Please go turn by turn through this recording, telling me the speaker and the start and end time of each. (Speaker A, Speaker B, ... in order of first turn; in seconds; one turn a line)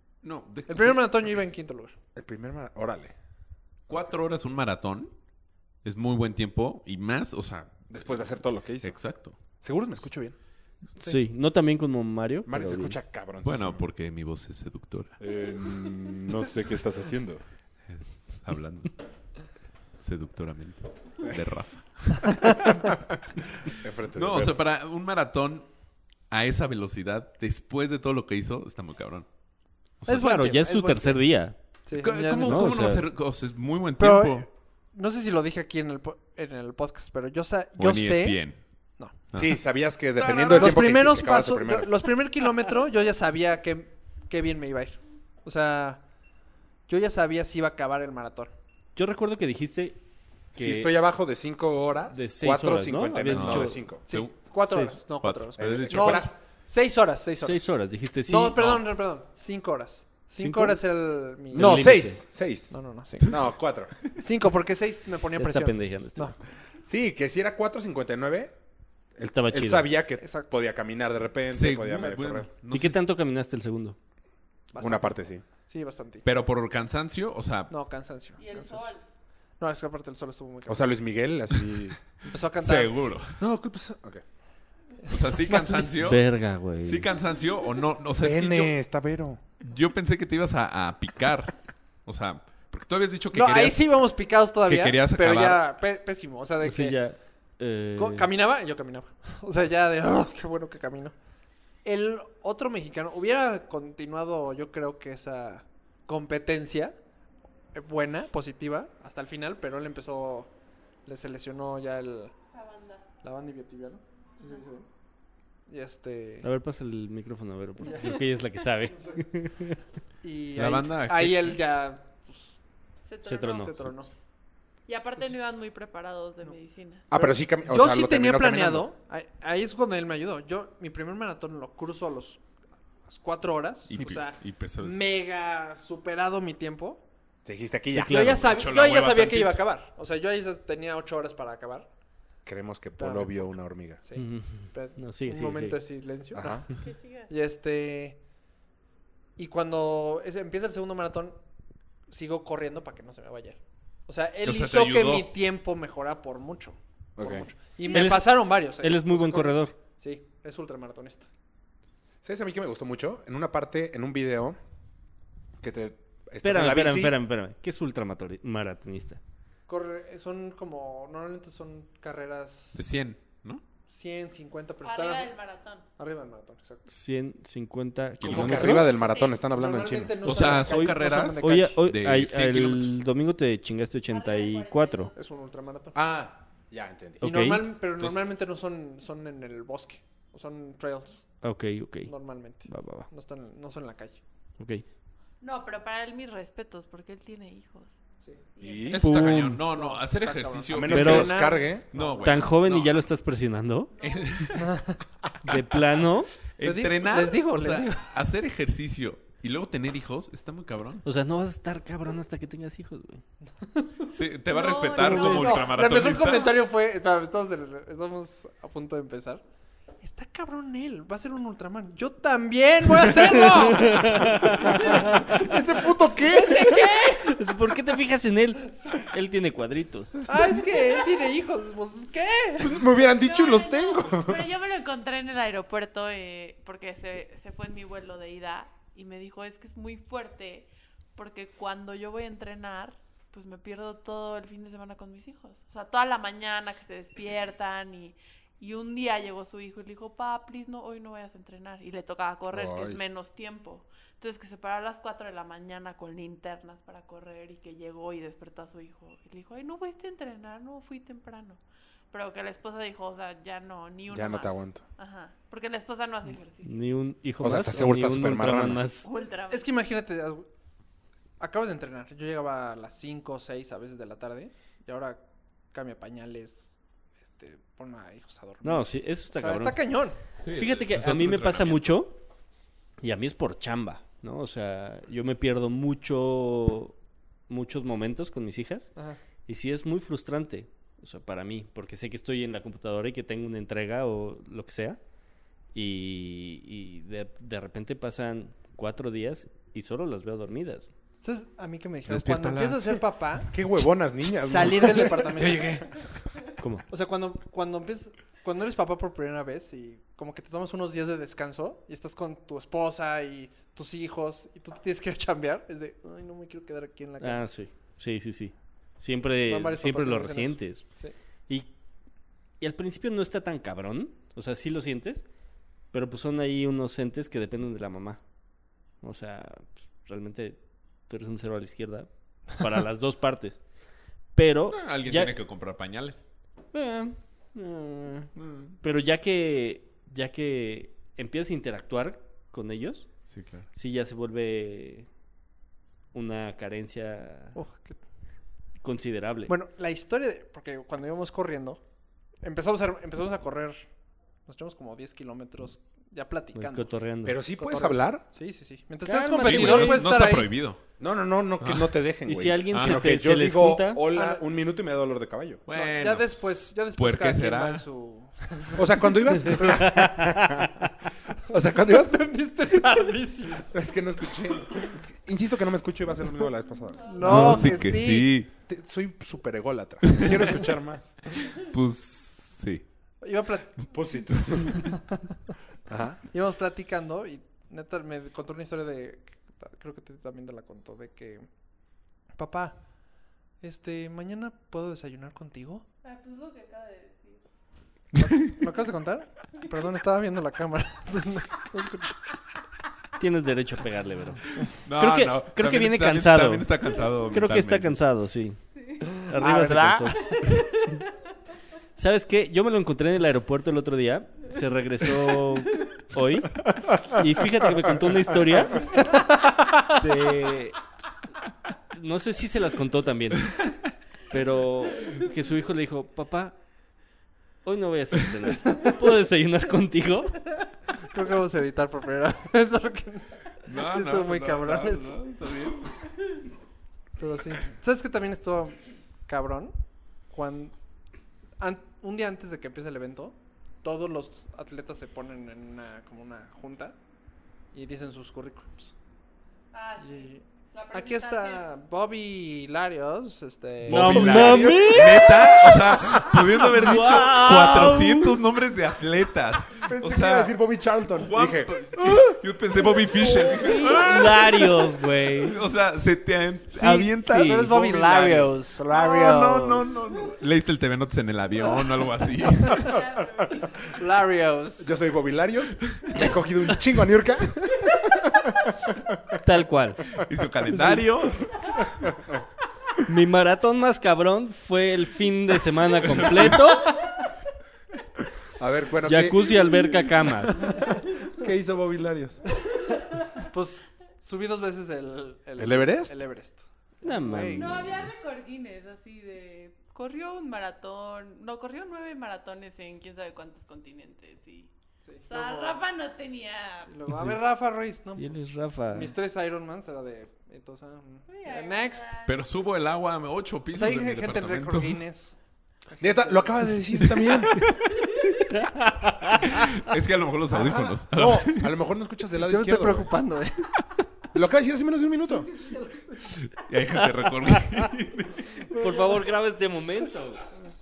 Speaker A: 0.2-1.0
Speaker B: 0.7-1.9
Speaker C: 2.1-3.1
Speaker A: 3.9-5.1
Speaker A: 5.8-8.3
Speaker C: 7.9-10.3
Speaker A: 8.8-9.3
Speaker D: 11.0-13.0
Speaker C: 12.4-13.8
Speaker A: 13.4-15.2
Speaker C: 15.2-17.4
Speaker A: 17.9-19.0
Speaker A: 19.9-22.7
Speaker C: 23.7-24.6
Speaker A: 24.1-25.7
Speaker A: 26.3-29.3
Speaker A: 30.0-30.2
Speaker B: 30.1-31.2
Speaker D: 30.1-31.6
Speaker B: 31.9-32.7
Speaker A: 31.9-34.5
Speaker D: 32.4-33.0
Speaker B: 34.0-38.4
Speaker A: 37.8-38.6
Speaker A: 39.3-39.6
Speaker C: 39.3-42.0
Speaker A: 40.2-40.8
Speaker B: 40.3-46.0
Speaker B: 46.9-48.5
Speaker D: 49.0-50.0
Speaker C: 50.5-54.0
Speaker D: 50.5-50.9
Speaker D: 52.1-53.8
Speaker A: 53.3-54.5
Speaker B: 54.1-62.0
Speaker D: 54.6-55.0
Speaker A: 55.2-56.3
Speaker C: 55.6-56.3
Speaker D: 57.4-58.8
Speaker D: 60.4-60.8
Speaker D: 61.5-62.2
Speaker C: 61.5-62.7
Speaker B: 62.7-63.4
Speaker C: 63.2-64.0
Speaker B: 64.1-66.3
Speaker D: 65.4-66.3
Speaker C: 66.8-68.5
Speaker C: 69.2-72.5
Speaker D: 69.2-69.9
Speaker B: 70.2-70.5
Speaker A: 71.5-73.0
Speaker D: 72.7-74.0
Speaker B: 74.7-76.2
Speaker C: 74.8-75.4
Speaker A: 76.2-77.7
Speaker B: 77.7-78.9
Speaker E: 78.4-79.0
Speaker B: 79.6-80.9
Speaker C: 80.7-82.0
Speaker A: 81.5-81.9
Speaker B: 82.3-83.0
Speaker A: 82.5-83.4
Speaker C: 83.4-84.2
Speaker A: 85.1-86.2
Speaker B: 85.4-85.9
Speaker D: 86.0-87.1
Speaker A: 86.8-88.7
Speaker C: 88.2-89.4
Speaker A: 89.6-93.9
Speaker B: 93.3-97.0
Speaker A: 94.7-95.6
Speaker D: 96.6-98.3
Speaker B: 98.0-101.2
Speaker B: 101.8-106.9
Speaker B: 107.7-110.5
Speaker B: 111.0-112.3
Speaker E: 112.5-113.0
Speaker B: 113.2-114.8
Speaker B: 115.7-116.5
Speaker D: 116.4-119.8
Speaker E: 117.9-118.2
Speaker B: 120.2-122.6
Speaker A: 120.5-121.6
Speaker E: 123.1-123.7
Speaker D: 123.2-123.9
Speaker B: 123.6-124.1
Speaker E: 124.8-127.1
Speaker C: 127.1-128.9
Speaker B: 127.1-132.4
Speaker B: 133.1-137.0
Speaker A: 133.9-135.0
Speaker C: 137.4-138.4
Speaker D: 137.9-138.4
Speaker B: 138.0-141.9
Speaker A: 138.2-139.6
Speaker C: 142.4-144.0
Speaker B: 143.0-143.5
Speaker B: 144.0-148.2
Speaker D: 144.2-145.8
Speaker C: 146.3-146.7
Speaker E: 146.8-147.3
Speaker B: 149.4-151.4
Speaker B: 152.1-161.3
Speaker A: 154.4-155.3
Speaker C: 157.2-157.5
Speaker D: 157.9-159.7
Speaker C: 162.2-164.6
Speaker C: 165.6-167.2
Speaker D: 166.4-169.2
Speaker B: 169.7-172.8
Speaker A: 172.7-173.6
Speaker B: 173.9-175.3
Speaker E: 174.8-175.9
Speaker B: 176.0-176.8
Speaker D: 176.9-178.9
Speaker A: 178.2-178.8
Speaker C: 178.2-180.4
Speaker E: 178.8-179.4
Speaker B: 179.4-181.8
Speaker A: 180.2-182.9
Speaker D: 180.7-185.1
Speaker E: 184.1-185.2
Speaker B: 185.2-186.0
Speaker C: 185.9-187.2
Speaker D: 187.2-187.7
Speaker B: 187.2-191.3
Speaker A: 188.0-188.2
Speaker D: 191.4-192.1
Speaker B: 192.1-194.2
Speaker D: 192.7-193.1
Speaker D: 194.6-194.8
Speaker E: 195.4-198.0
Speaker E: 198.6-199.1
Speaker C: 198.6-199.0
Speaker A: 198.9-203.0
Speaker D: 199.0-199.6
Speaker B: 199.6-202.4
Speaker C: 200.7-201.8
Speaker D: 200.9-201.3
Speaker D: 202.2-203.9
Speaker E: 203.9-204.6
Speaker A: 204.0-204.7
Speaker B: 204.6-205.0
Speaker D: 205.4-206.3
Speaker A: 206.6-211.0
Speaker B: 206.6-208.1
Speaker D: 211.0-213.2
Speaker B: 213.6-214.0
Speaker A: 214.1-216.6
Speaker E: 214.5-215.7
Speaker B: 214.9-219.4
Speaker D: 215.0-215.4
Speaker B: 220.0-227.4
Speaker D: 223.6-225.3
Speaker C: 224.6-227.1
Speaker D: 227.2-230.2
Speaker B: 230.2-232.8
Speaker C: 232.6-234.4
Speaker E: 233.1-261.6
Speaker C: 252.5-253.0
Speaker E: 262.1-266.8
Speaker C: 264.1-264.8
Speaker D: 266.6-269.1
Speaker C: 267.4-268.8
Speaker E: 268.9-269.6
Speaker B: 269.5-270.4
Speaker B: 271.4-275.2
Speaker B: 275.7-276.7
Speaker B: 277.3-280.2
Speaker D: 278.6-279.8
Speaker A: 280.4-281.9
Speaker D: 280.5-282.2
Speaker D: 283.0-286.9
Speaker D: 287.5-288.9
Speaker D: 289.5-295.0
Speaker D: 295.7-300.9
Speaker B: 301.2-303.6
Speaker A: 302.0-303.0
Speaker C: 303.5-305.4
Speaker B: 304.3-305.8
Speaker A: 305.4-306.2
Speaker D: 306.6-306.8
Speaker B: 306.9-317.4
Speaker D: 317.2-320.8
Speaker B: 319.4-321.1
Speaker D: 322.6-325.2
Speaker D: 325.9-328.2
Speaker D: 329.0-333.6
Speaker D: 334.3-335.3
Speaker A: 334.7-336.2
Speaker D: 336.7-343.1
Speaker A: 338.4-338.7
Speaker A: 343.3-343.7
Speaker D: 343.7-345.1
Speaker D: 346.1-347.6
Speaker B: 347.5-348.0
Speaker D: 348.8-349.5
Speaker B: 349.5-351.8
Speaker B: 352.4-353.9
Speaker B: 354.4-356.9
Speaker D: 356.5-357.4
Speaker C: 357.2-358.2
Speaker B: 357.6-360.5
Speaker D: 359.2-359.8
Speaker A: 359.3-360.8
Speaker C: 361.0-365.6
Speaker A: 361.6-361.9
Speaker D: 362.3-364.0
Speaker A: 362.7-363.0
Speaker B: 364.1-364.4
Speaker A: 365.7-367.8
Speaker B: 365.7-370.3
Speaker C: 368.8-370.8
Speaker D: 369.8-370.8
Speaker C: 371.5-372.2
Speaker B: 371.5-373.8
Speaker C: 373.7-377.5
Speaker E: 376.9-377.8
Speaker B: 377.1-378.3
Speaker A: 377.2-378.5
Speaker D: 377.3-377.6
Speaker C: 378.7-381.1
Speaker A: 380.0-380.6
Speaker A: 381.3-382.8
Speaker B: 383.2-383.9
Speaker C: 383.9-384.9
Speaker C: 385.9-386.2
Speaker B: 386.3-391.4
Speaker B: 392.3-392.8
Speaker B: 393.6-395.8
Speaker E: 396.0-397.4
Speaker B: 398.1-402.3
Speaker D: 403.2-406.7
Speaker A: 404.8-408.0
Speaker D: 407.3-410.5
Speaker B: 409.2-410.1
Speaker E: 410.1-411.1
Speaker D: 411.9-419.0
Speaker B: 419.1-420.0
Speaker D: 419.9-420.8
Speaker D: 421.9-423.6
Speaker D: 424.3-426.5
Speaker D: 427.6-430.4
Speaker B: 431.0-435.1
Speaker A: 433.6-435.9
Speaker B: 437.2-439.7
Speaker B: 440.3-440.7
Speaker B: 441.6-446.9
Speaker B: 447.7-448.9
Speaker E: 449.7-451.7
Speaker B: 450.0-454.7
Speaker A: 453.8-460.5
Speaker D: 453.9-458.4
Speaker C: 454.3-455.3
Speaker C: 459.8-462.2
Speaker A: 461.1-464.7
Speaker D: 463.3-465.6
Speaker A: 465.4-472.9
Speaker D: 466.7-467.7
Speaker B: 467.4-470.0
Speaker E: 472.7-473.9
Speaker B: 473.9-474.9
Speaker C: 474.8-479.4
Speaker A: 475.9-476.2
Speaker D: 479.4-480.1
Speaker A: 480.1-482.0
Speaker D: 480.7-481.1
Speaker D: 483.0-487.1
Speaker C: 488.6-489.7
Speaker D: 489.0-490.7
Speaker C: 490.6-492.4
Speaker B: 493.4-497.9
Speaker C: 495.6-496.1
Speaker D: 497.0-498.2
Speaker E: 497.5-504.7
Speaker B: 505.0-505.8
Speaker E: 505.3-506.9
Speaker B: 506.9-508.4
Speaker D: 507.1-507.4
Speaker D: 508.2-509.1
Speaker B: 508.9-512.1
Speaker E: 511.3-512.4
Speaker A: 512.2-515.0
Speaker B: 513.7-515.4
Speaker B: 515.9-517.0
Speaker C: 516.0-517.6
Speaker A: 517.1-517.9
Speaker E: 518.1-518.4
Speaker D: 518.3-519.6
Speaker A: 519.4-521.7
Speaker C: 520.5-523.1
Speaker B: 522.4-523.8
Speaker C: 524.3-525.5
Speaker B: 525.3-526.2
Speaker A: 526.3-528.5
Speaker B: 528.5-529.2
Speaker D: 528.7-530.4